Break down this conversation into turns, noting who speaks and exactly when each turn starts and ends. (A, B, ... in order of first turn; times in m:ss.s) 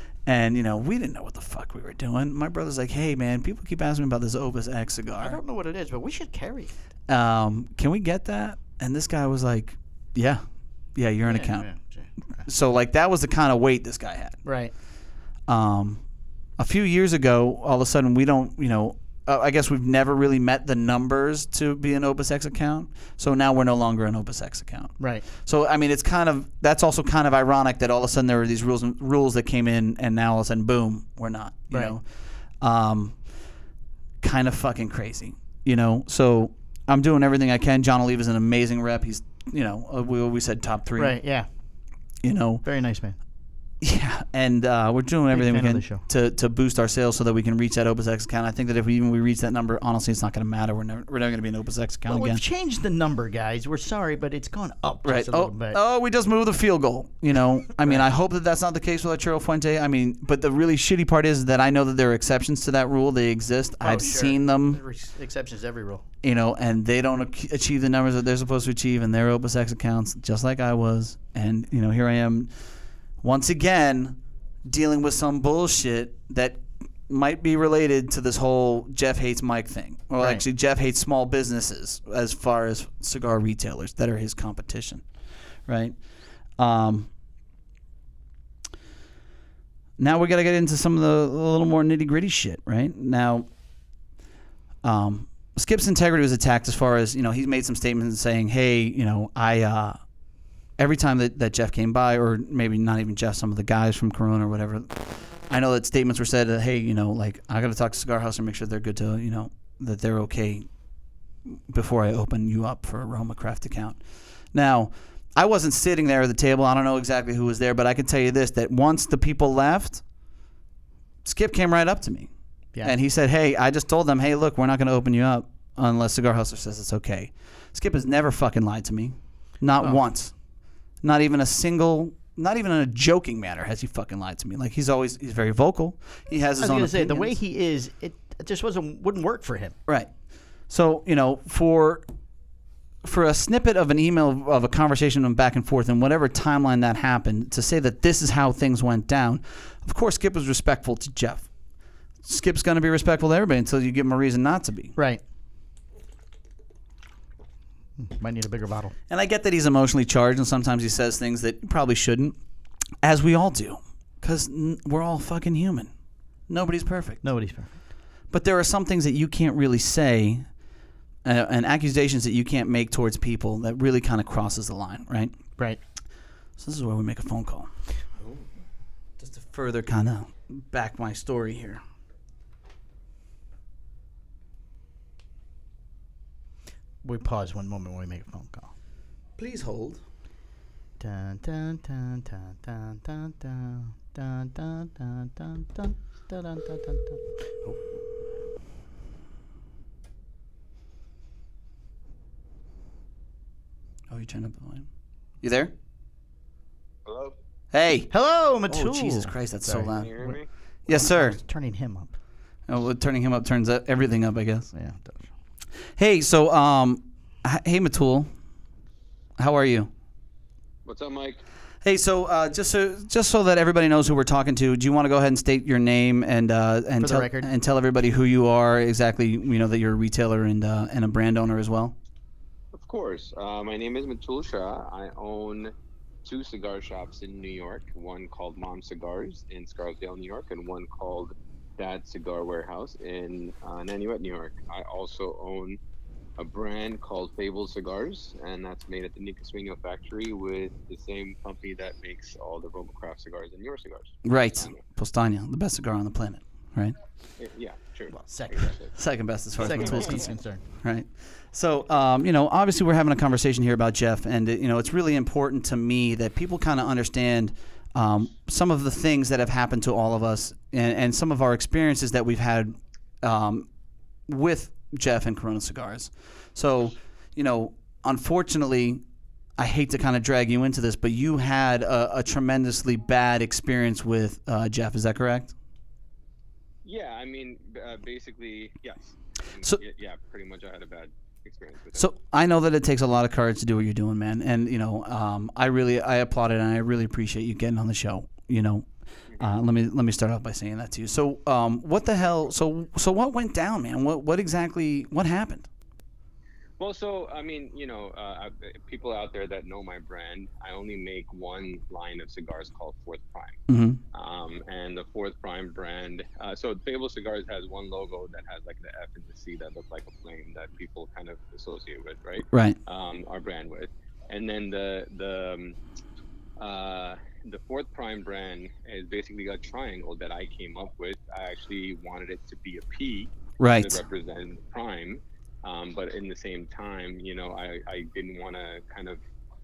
0:00.3-0:05.4 A
0:05.2-0:06.7 B
0:07.1-0:10.4 A
0:11.0-0:11.7 A
0:11.3-0:12.5 B
0:12.5-0:14.4 A
0:14.4-0:14.7 B
0:15.5-0:16.0 A
0:16.6-0:32.0 A
0:25.0-0:25.2 B
0:32.6-0:33.2 A
0:34.2-0:41.2 A
0:41.0-0:41.5 B
0:42.2-0:42.6 A
0:42.6-0:43.2 B
0:43.8-0:52.4 A
0:45.3-0:46.0 B
0:52.1-0:55.8 B
0:55.0-1:04.8 A
1:03.8-1:06.0 B
1:06.2-1:12.5 A
1:13.2-1:25.0 A
1:25.7-1:26.0 A
1:26.6-1:27.1 A
1:30.0-1:33.5 A
1:34.8-1:40.0 A
1:40.8-1:50.7 A
1:51.5-1:54.0 A
1:54.5-2:00.0 A
2:01.2-2:02.3 A
2:02.8-2:10.3 A
2:11.0-2:17.4 A
2:16.6-2:19.8 B
2:20.7-2:22.0 A
2:23.0-2:31.5 A
2:32.2-2:34.9 A
2:35.0-2:35.2 B
2:38.0-2:38.9 B
2:39.1-2:42.4 A
2:43.0-2:45.9 A
2:46.5-2:47.2 A
2:47.2-2:47.8 B
2:48.3-2:50.5 A
2:51.2-2:55.4 A
2:56.6-2:57.7 A
2:59.2-3:01.8 A
3:07.0-3:08.7 B
3:09.4-3:10.0 A
3:11.0-3:17.8 B
3:24.1-3:24.9 A
3:25.4-3:25.7 A
3:27.1-3:27.4 C
3:27.7-3:28.1 A
3:28.1-3:30.4 B
3:28.7-3:30.3 A
3:29.9-3:30.5 C
3:30.9-3:31.4 A
3:30.9-3:32.1 B
3:32.7-3:34.7 A
3:34.7-3:35.3 B
3:36.0-3:38.3 A
3:39.4-3:39.9 A
3:40.9-3:41.4 C
3:41.8-3:52.0 A
3:47.0-3:47.5 B
3:52.7-3:55.7 C
3:56.2-4:05.8 C
4:06.4-4:14.8 C
4:14.2-4:17.0 A
4:17.4-4:18.9 C
4:18.1-4:18.8 B
4:19.0-4:20.3 A
4:19.6-4:20.6 B
4:19.6-4:20.2 C
4:20.8-4:33.7 A
4:34.3-4:39.0 A
4:39.6-4:45.5 A
4:46.8-4:52.1 C
4:52.0-4:58.9 A
4:59.4-5:05.7 A
5:06.8-5:13.6 C
5:13.7-5:14.0 A
5:14.1-5:25.8 C
5:22.5-5:22.8 A
5:26.6-5:39.2 C
5:33.6-5:34.0 A